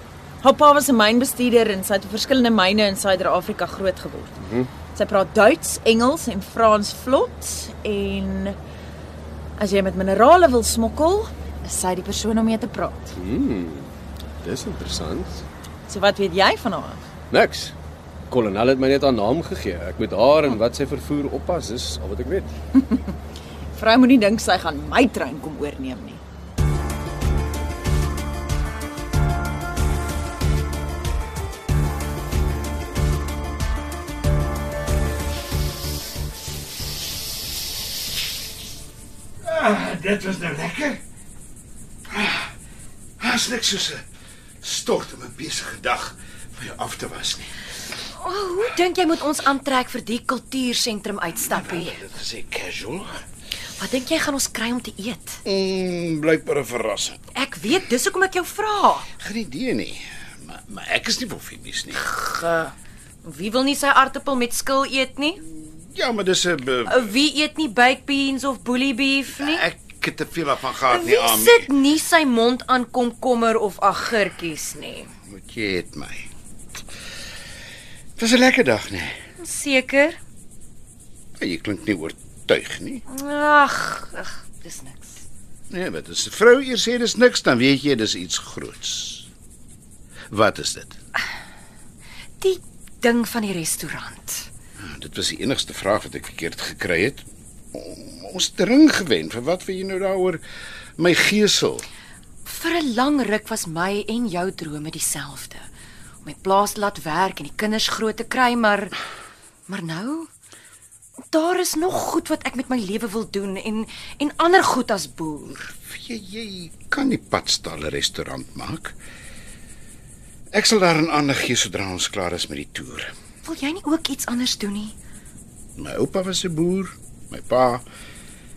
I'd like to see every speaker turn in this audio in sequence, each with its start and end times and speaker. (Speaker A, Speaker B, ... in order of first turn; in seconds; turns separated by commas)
Speaker A: 0.4-4.3, Speaker B: 4.4-4.7, Speaker A: 4.9-8.6, Speaker A: 9.6-13.1, Speaker B: 13.2-15.4, Speaker A: 15.9-17.0, Speaker B: 17.3-17.7, Speaker B: 18.3-22.5, Speaker A: 22.8-23.0, Speaker A: 23.8-26.2, Speaker C: 39.4-41.0, Speaker C: 42.1-42.5, Speaker C: 43.2-44.0, Speaker C: 44.6-47.5, Speaker D: 48.1-52.0, Speaker C: 51.4-53.2, Speaker D: 53.8-55.4, Speaker C: 55.4-57.2, Speaker D: 57.3-59.1, Speaker C: 59.2-62.1, Speaker D: 62.0-65.4, Speaker C: 65.4-67.1, Speaker D: 66.9-69.6, Speaker C: 69.3-71.7, Speaker D: 70.9-75.1, Speaker C: 75.3-76.3, Speaker C: 78.2-79.2, Speaker D: 79.4-80.2, Speaker C: 81.4-83.0, Speaker D: 83.1-85.2, Speaker C: 85.7-89.3, Speaker C: 90.3-91.0, Speaker D: 92.4-94.5, Speaker C: 94.8-100.4, Speaker C: 101.0-101.9, Speaker D: 102.4-105.7, Speaker D: 106.2-108.9, Speaker D: 109.7-110.3, Speaker D: 111.3-115.7, Speaker C: 115.6-119.0, Speaker C: 120.5-123.1, Speaker D: 123.4-124.9, Speaker C: 125.8-127.8